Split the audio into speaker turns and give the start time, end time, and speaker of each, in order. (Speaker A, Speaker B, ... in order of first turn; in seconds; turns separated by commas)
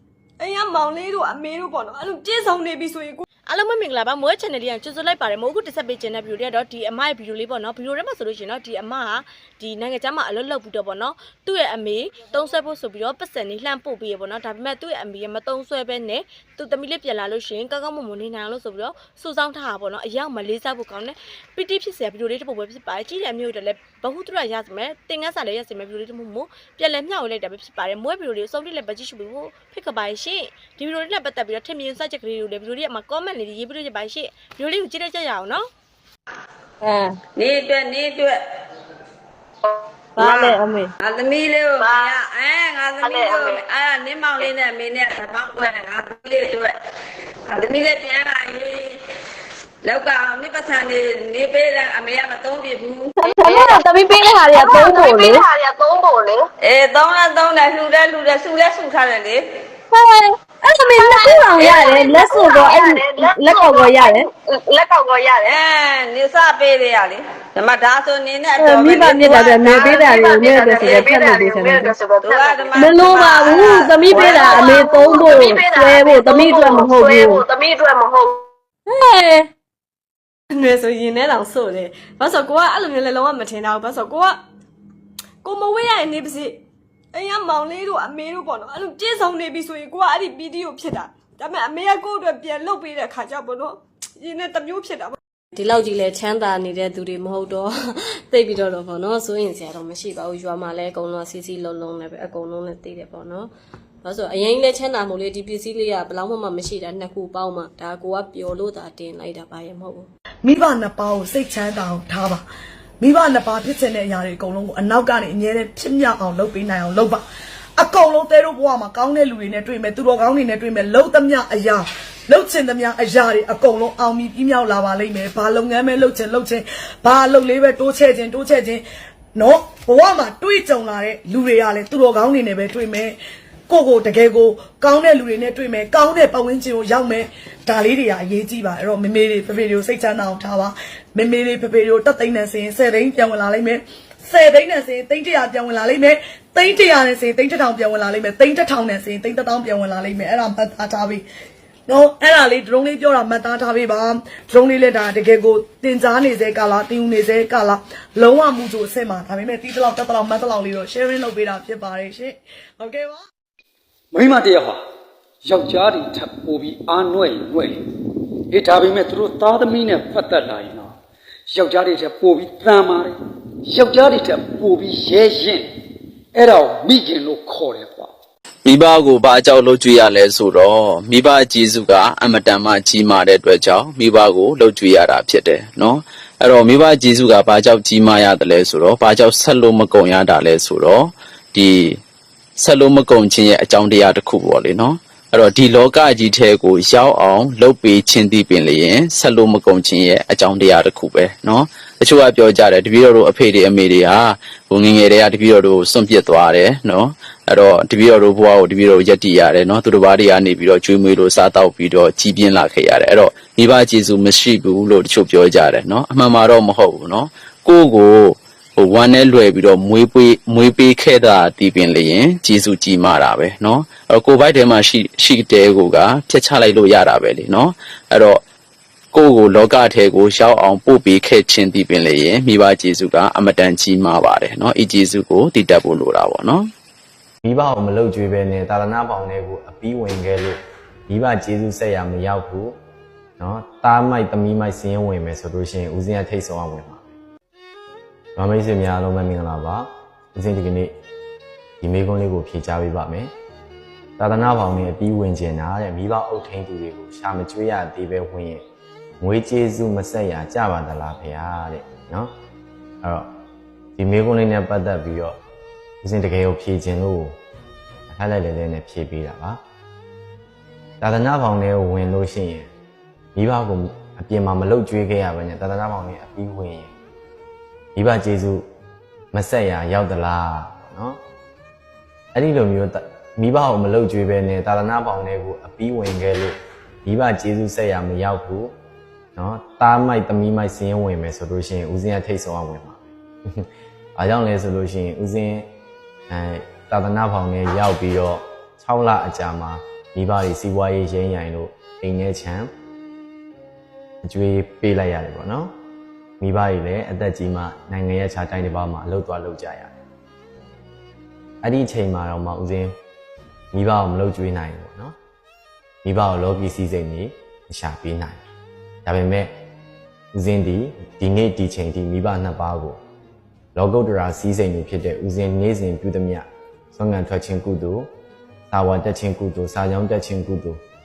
Speaker A: 0.4-3.2, Speaker B: 3.5-35.6, Speaker C: 36.8-37.1, Speaker D: 37.4-38.4, Speaker E: 39.6-40.6, Speaker C: 40.2-40.9, Speaker D: 40.2-46.7, Speaker E: 41.7-42.2, Speaker E: 43.0-43.6, Speaker D: 47.5-48.9, Speaker D: 49.8-53.6, Speaker C: 53.2-55.4, Speaker E: 53.2-56.5, Speaker D: 56.6-59.4, Speaker C: 59.9-64.2, Speaker E: 60.9-65.6, Speaker D: 65.5-69.6, Speaker C: 68.6-71.9, Speaker E: 69.6-78.5, Speaker D: 70.7-71.0, Speaker D: 72.2-75.5, Speaker C: 72.8-77.4, Speaker F: 80.5-83.6, Speaker A: 82.5-84.4, Speaker A: 85.4-86.6, Speaker A: 87.1-95.2, Speaker F: 95.5-103.5, Speaker F: 104.0-110.1, Speaker G: 110.4-112.4, Speaker G: 113.0-117.2, Speaker G: 117.8-128.8, Speaker G: 129.3-133.2, Speaker G: 133.7-151.2, Speaker G: 151.9-163.2, Speaker H: 164.1-164.8, Speaker H: 165.4-167.8, Speaker H: 168.5-170.9, Speaker H: 171.5-175.7, Speaker H: 176.3-178.1, Speaker I: 178.6-192.0, Speaker I: 192.6-228.4, Speaker I: 229.1-236.7, Speaker J: 237.4-242.8, Speaker J: 243.4-247.0, Speaker J: 248.3-250.9, Speaker J: 251.8-253.3, Speaker J: 254.2-258.6, Speaker J: 259.2-262.3, Speaker J: 263.0-263.3, Speaker J: 264.0-265.4, Speaker J: 266.0-267.4, Speaker J: 268.1-269.6, Speaker J: 271.0-272.7, Speaker J: 273.4-276.9, Speaker J: 277.9-278.7, Speaker J: 279.3-281.2, Speaker J: 282.3-288.7, Speaker J: 289.4-295.7, Speaker J: 296.3-302.7, Speaker J: 304.2-305.7, Speaker J: 306.4-309.9, Speaker J: 311.6-312.9, Speaker J: 313.7-315.1, Speaker J: 316.0-318.4, Speaker J: 319.0-319.5, Speaker J: 320.3-323.0, Speaker J: 323.7-328.1, Speaker J: 328.7-330.8